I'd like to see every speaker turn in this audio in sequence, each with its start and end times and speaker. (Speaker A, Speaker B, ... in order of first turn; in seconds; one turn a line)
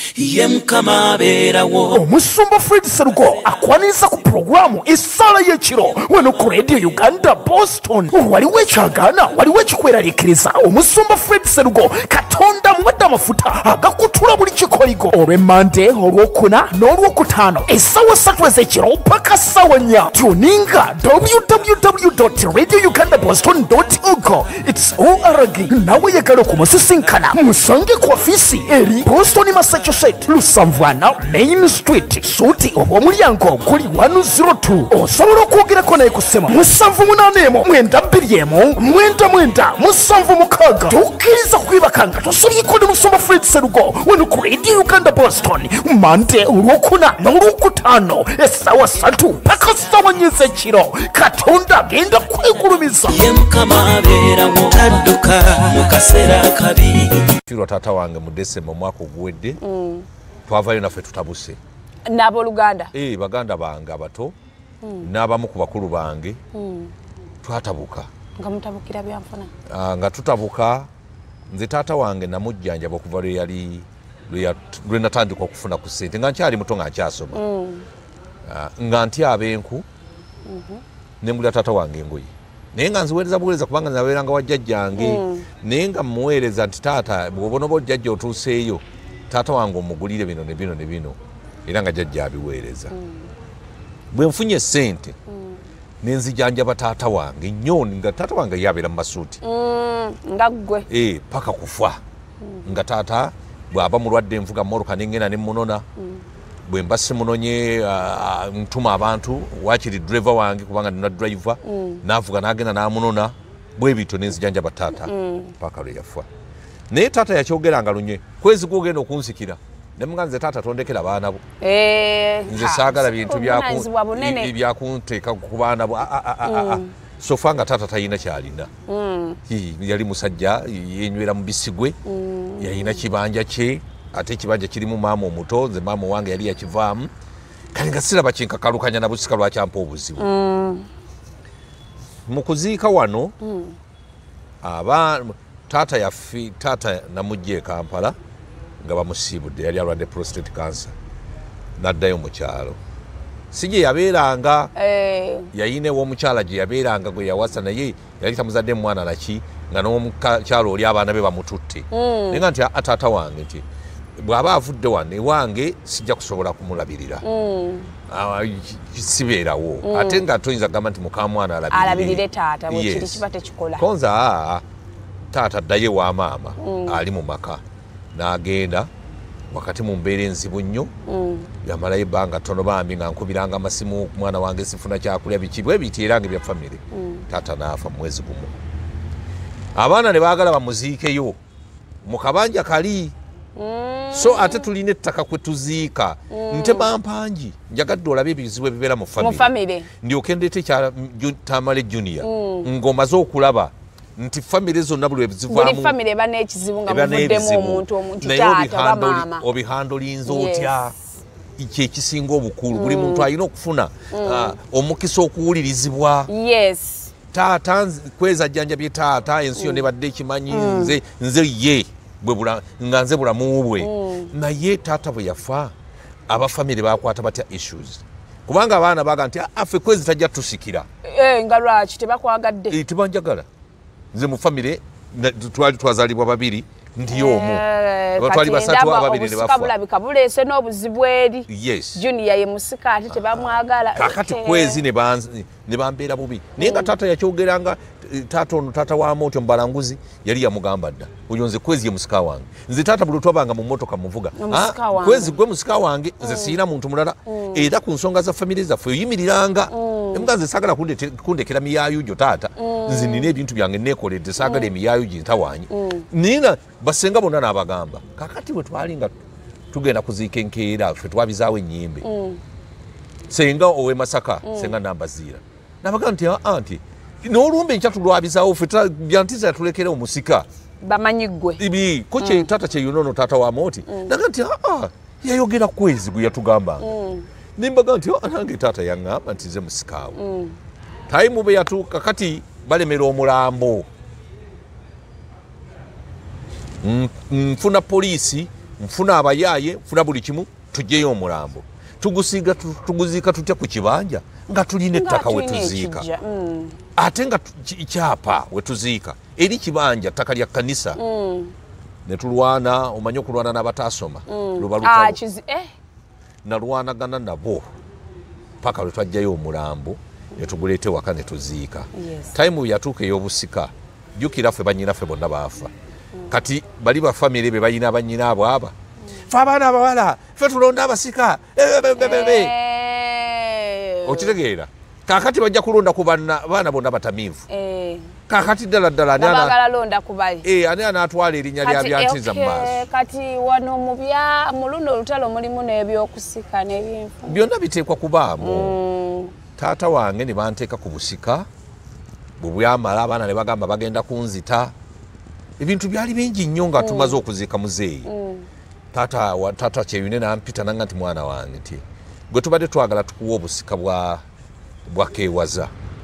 Speaker A: 0.1-2.0
Speaker B: 1.9-53.2
Speaker A: 53.1-57.3
Speaker C: 57.4-59.6
Speaker D: 59.6-60.0
Speaker C: 60.5-61.6
Speaker D: 62.1-62.9
Speaker C: 62.9-64.3
Speaker D: 64.8-65.1
Speaker C: 65.0-66.4
Speaker D: 66.5-66.9
Speaker C: 67.4-68.1
Speaker D: 68.4-69.5
Speaker C: 69.7-70.9
Speaker C: 71.5-77.4
Speaker D: 77.3-77.8
Speaker C: 78.5-79.8
Speaker D: 80.5-80.8
Speaker C: 81.2-92.9
Speaker D: 85.0-85.5
Speaker D: 92.9-93.2
Speaker C: 94.1-95.1
Speaker D: 95.3-95.6
Speaker C: 96.0-99.4
Speaker D: 99.4-100.9
Speaker C: 100.9-102.0
Speaker C: 102.6-105.8
Speaker D: 106.0-106.2
Speaker C: 106.7-116.3
Speaker D: 111.6-112.0
Speaker D: 115.0-115.5
Speaker C: 116.9-121.4
Speaker D: 121.6-124.5
Speaker C: 122.5-128.7
Speaker D: 126.4-126.9
Speaker D: 128.9-129.4
Speaker C: 129.5-132.0
Speaker D: 132.0-133.0
Speaker C: 132.6-137.1
Speaker C: 137.7-140.3
Speaker D: 140.2-140.9
Speaker C: 142.3-143.3
Speaker D: 143.4-143.8
Speaker C: 144.6-148.2
Speaker C: 148.8-150.9
Speaker C: 151.8-152.8
Speaker C: 153.5-154.7
Speaker D: 154.8-155.5
Speaker C: 155.5-163.6
Speaker D: 161.9-162.4
Speaker C: 164.2-167.2
Speaker D: 167.2-167.9
Speaker C: 168.1-173.2
Speaker D: 169.8-170.2
Speaker D: 171.7-173.9
Speaker C: 173.8-174.6
Speaker C: 175.3-177.6
Speaker D: 176.6-177.0
Speaker C: 178.1-178.9
Speaker C: 179.5-180.9
Speaker D: 181.1-181.5
Speaker C: 181.6-188.5
Speaker D: 186.9-187.2
Speaker C: 189.7-191.4
Speaker C: 192.0-193.1
Speaker D: 193.6-194.7
Speaker C: 194.1-205.9
Speaker D: 196.3-196.9
Speaker D: 199.2-199.9
Speaker D: 202.2-202.7
Speaker D: 205.5-209.4
Speaker C: 206.8-210.9
Speaker D: 210.2-210.8
Speaker C: 211.6-216.3
Speaker D: 212.7-213.3
Speaker D: 214.1-214.6
Speaker D: 216.3-217.1
Speaker C: 217.3-225.7
Speaker D: 219.6-219.8
Speaker D: 220.5-221.0
Speaker D: 223.8-224.3
Speaker C: 226.3-230.9
Speaker D: 231.0-232.8
Speaker C: 232.7-233.4
Speaker C: 234.1-237.6
Speaker D: 237.1-244.8
Speaker C: 238.2-239.7
Speaker C: 241.5-242.0
Speaker C: 243.1-269.1
Speaker D: 246.6-246.9
Speaker D: 254.4-255.3
Speaker D: 256.2-256.6
Speaker D: 257.3-257.7
Speaker D: 259.7-260.3
Speaker D: 262.6-263.3
Speaker D: 264.4-264.7
Speaker D: 265.7-266.1
Speaker C: 269.7-272.0
Speaker D: 272.0-272.4
Speaker C: 273.3-280.4
Speaker D: 274.4-274.7
Speaker D: 280.8-281.6
Speaker C: 281.6-286.9
Speaker D: 282.2-282.5
Speaker D: 283.9-284.1
Speaker D: 286.8-287.3
Speaker C: 287.6-290.2
Speaker D: 290.1-290.6
Speaker C: 291.1-293.9
Speaker C: 296.8-306.1
Speaker D: 304.9-306.8
Speaker C: 306.9-311.0
Speaker D: 310.9-311.5
Speaker C: 312.1-315.2
Speaker D: 314.3-315.7
Speaker C: 316.4-317.7
Speaker C: 318.6-325.7
Speaker D: 321.9-322.3
Speaker C: 326.3-328.7
Speaker C: 329.2-332.5
Speaker D: 332.0-334.3
Speaker C: 334.0-337.4
Speaker D: 337.5-338.1
Speaker C: 338.3-339.5
Speaker D: 339.1-340.4
Speaker C: 340.4-342.8
Speaker D: 341.6-347.4
Speaker C: 347.3-348.8
Speaker D: 348.4-349.3
Speaker C: 349.6-351.5
Speaker C: 352.4-354.7
Speaker C: 355.6-358.1
Speaker D: 356.8-357.2
Speaker D: 358.0-358.5
Speaker C: 358.9-364.2
Speaker C: 364.9-365.7